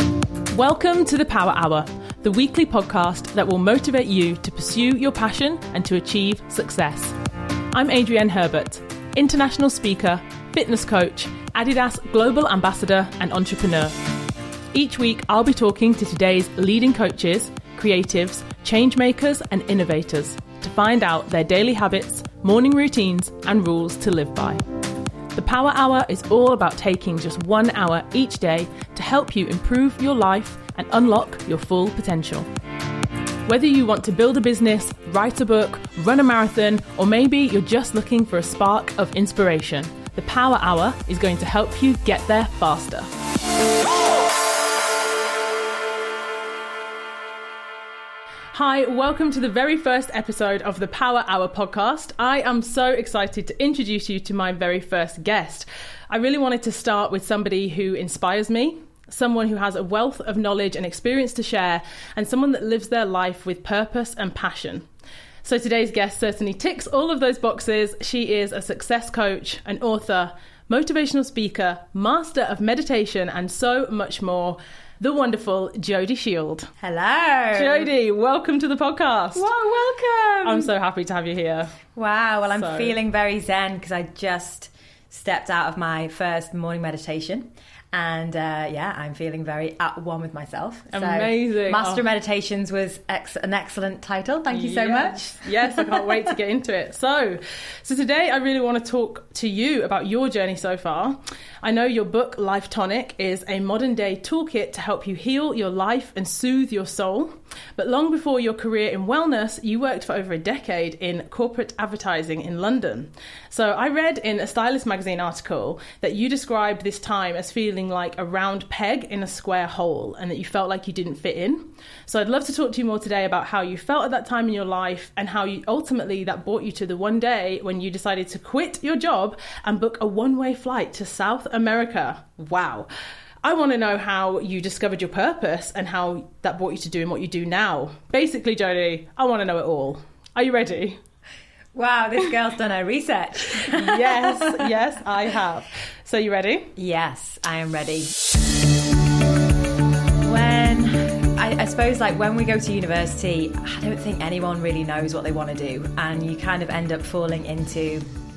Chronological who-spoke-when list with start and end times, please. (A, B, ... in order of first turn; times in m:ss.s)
0:00.5-0:07.1 A
0:07.7-0:13.9 A
0:14.7-0:24.6 A
0:25.3-0:32.5 A
0:33.4-0:43.1 A
0:48.5-1:04.9 A
1:05.4-1:16.7 A
1:16.8-1:17.9 B
1:17.5-1:19.5 A
1:19.3-1:20.7 B
1:20.4-1:21.8 A
1:21.9-1:36.1 B
1:22.6-1:22.9 A
1:30.9-1:32.0 A
1:34.5-2:12.9 A
2:13.4-2:21.0 A
2:21.7-2:24.6 B
2:23.6-2:26.7 A
2:26.8-2:28.1 B
2:30.2-2:38.0 B